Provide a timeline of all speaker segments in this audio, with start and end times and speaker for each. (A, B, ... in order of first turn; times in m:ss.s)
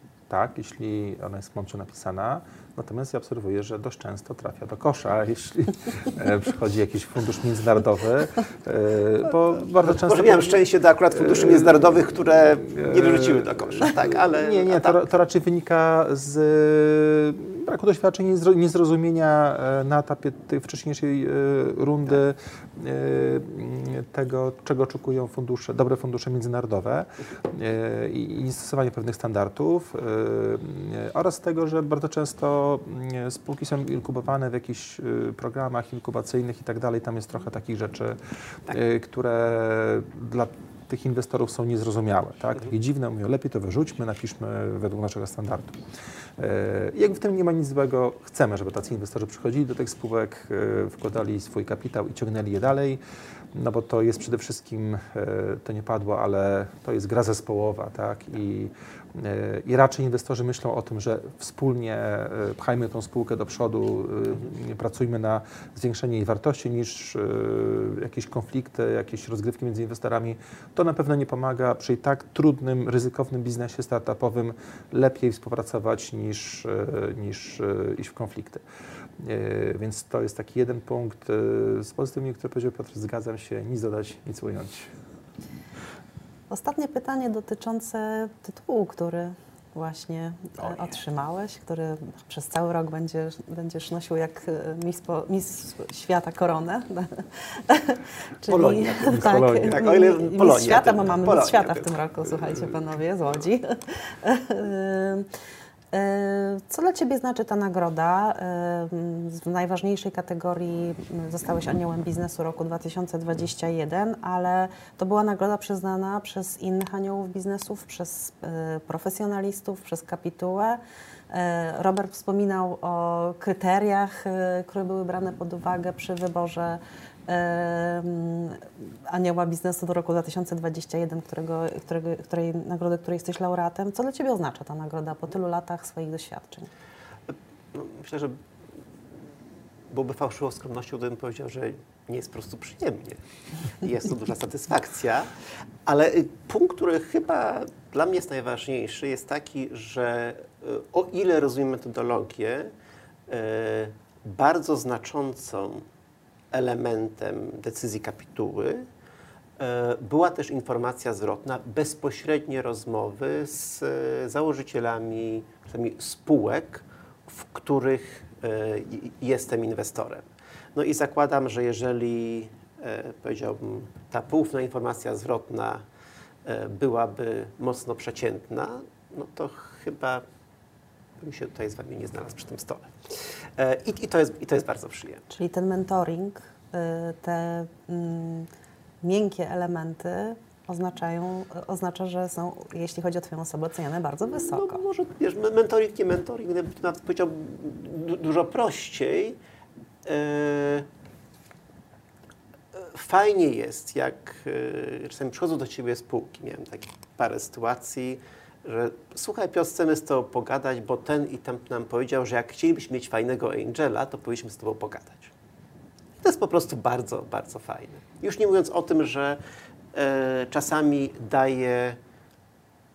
0:00.3-0:10.6 A
0:09.8-0:15.0 B
0:11.1-0:11.9 A
0:12.6-0:45.8 A
0:46.4-0:53.0 A
0:53.5-1:18.6 A
1:19.2-1:24.9 A
1:26.5-1:45.3 C
1:38.5-1:42.8 B
1:45.9-2:00.8 C
2:01.3-2:16.7 C
2:17.7-2:18.4 B
2:19.9-2:23.2 B
2:23.8-2:25.3 B
2:25.8-2:32.7 B
2:33.3-2:35.8 B
2:36.5-2:38.8 B
2:39.6-2:55.8 B
2:56.4-3:00.2 B
3:01.2-3:05.3 B
3:05.3-3:08.5 C
3:09.0-3:14.8 C
3:14.3-3:19.4 B
3:20.0-3:20.9 B
3:22.7-3:35.3 B
3:36.2-3:39.4 B
3:39.9-3:42.0 B